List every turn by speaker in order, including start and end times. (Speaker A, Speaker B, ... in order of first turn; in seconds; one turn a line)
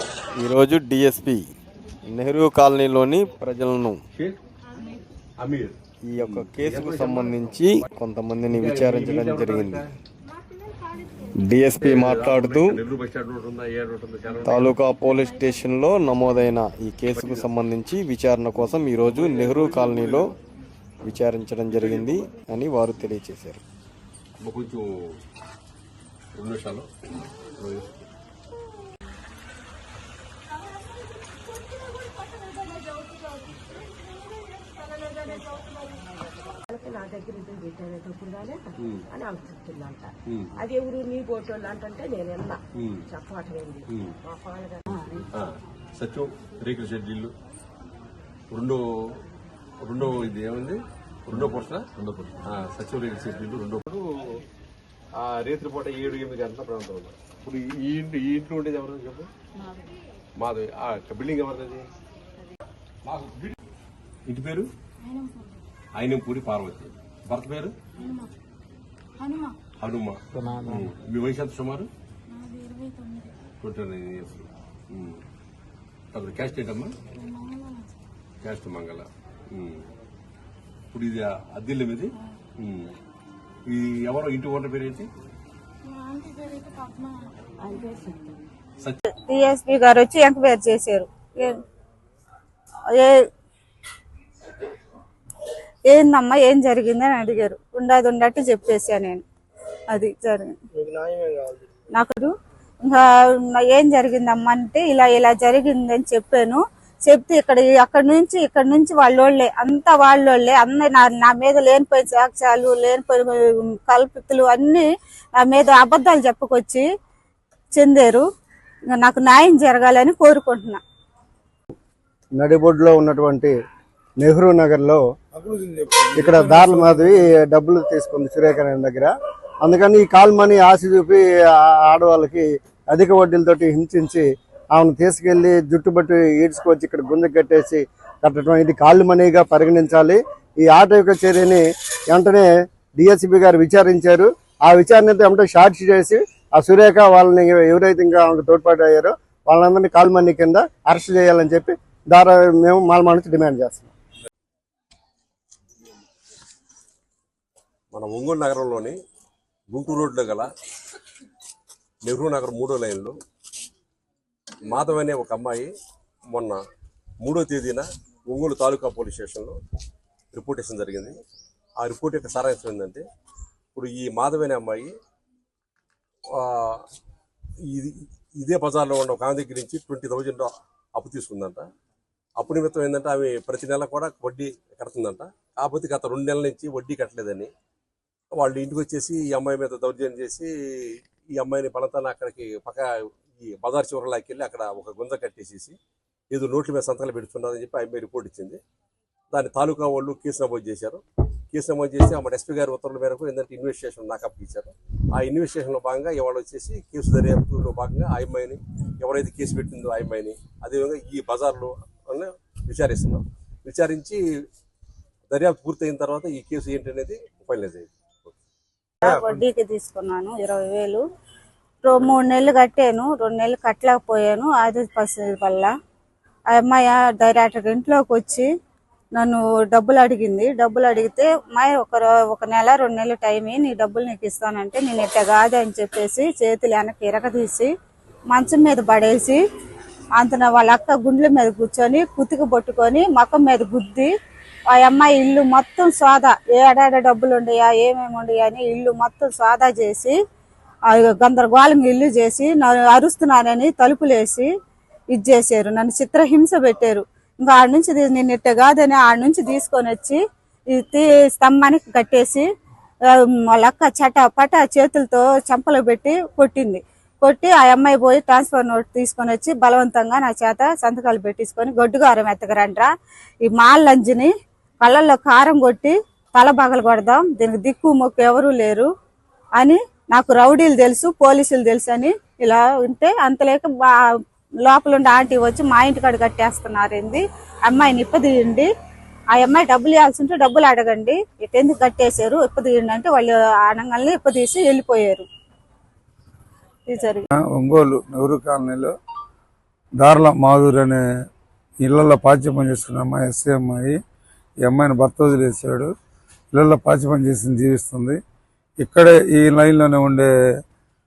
Speaker A: 0.4-1.5
Speaker A: 2.1-4.0
Speaker B: 5.4-7.9
Speaker A: 6.0-9.8
Speaker B: 8.5-9.9
Speaker A: 11.3-12.8
Speaker B: 11.7-14.8
Speaker A: 14.4-20.3
Speaker B: 17.1-17.5
Speaker B: 18.9-20.3
Speaker A: 21.0-23.6
Speaker B: 21.7-22.2
Speaker B: 24.4-25.1
Speaker B: 26.3-26.9
Speaker B: 27.4-27.9
Speaker C: 32.4-33.4
Speaker C: 34.5-45.3
Speaker B: 38.8-39.0
Speaker B: 40.3-40.5
Speaker B: 42.8-43.0
Speaker B: 43.9-44.2
Speaker B: 45.3-47.3
Speaker B: 48.5-48.8
Speaker B: 49.8-54.0
Speaker B: 55.2-59.3
Speaker B: 60.4-61.9
Speaker B: 63.0-63.5
Speaker B: 64.2-64.7
Speaker B: 66.0-67.7
Speaker B: 69.8-71.9
Speaker A: 72.4-73.3
Speaker B: 73.6-75.2
Speaker B: 76.1-77.0
Speaker A: 77.3-77.8
Speaker B: 78.4-79.9
Speaker B: 80.9-82.9
Speaker B: 83.7-85.1
Speaker A: 86.0-87.2
Speaker C: 87.6-88.5
Speaker D: 89.1-91.6
Speaker D: 92.9-93.2
Speaker D: 95.9-99.2
Speaker D: 99.9-100.5
Speaker E: 100.8-101.5
Speaker D: 102.0-102.3
Speaker D: 102.8-116.8
Speaker D: 117.8-118.2
Speaker D: 119.0-120.8
Speaker E: 122.4-123.5
Speaker E: 124.2-125.0
Speaker F: 125.3-127.2
Speaker E: 126.2-129.1
Speaker E: 129.6-153.9
Speaker B: 157.9-159.0
Speaker B: 159.7-160.5
Speaker B: 162.1-163.2
Speaker B: 164.7-165.7
Speaker B: 166.3-166.6
Speaker B: 167.2-169.6
Speaker B: 170.3-171.2
Speaker B: 171.8-173.0
Speaker B: 173.7-174.9
Speaker B: 176.3-176.8
Speaker B: 177.7-181.7
Speaker B: 182.4-187.5
Speaker B: 188.3-195.8
Speaker B: 196.3-198.6
Speaker B: 199.3-214.2
Speaker B: 215.3-218.3
Speaker D: 219.0-221.0
Speaker D: 221.8-225.7
Speaker D: 226.5-228.5
Speaker D: 229.2-237.7
Speaker D: 238.3-239.4
Speaker D: 240.2-244.1
Speaker D: 244.7-250.2
Speaker D: 250.9-254.5
Speaker D: 255.1-260.2
Speaker D: 260.7-262.4
Speaker D: 263.1-272.9
Speaker D: 273.4-278.9
Speaker D: 279.6-284.1
Speaker D: 284.6-288.7
Speaker D: 289.3-295.2
Speaker D: 296.9-297.2
Speaker F: 297.5-298.9
Speaker F: 300.0-301.0
Speaker F: 301.8-304.0
Speaker F: 304.6-305.9
Speaker F: 306.5-308.2
Speaker F: 308.8-310.3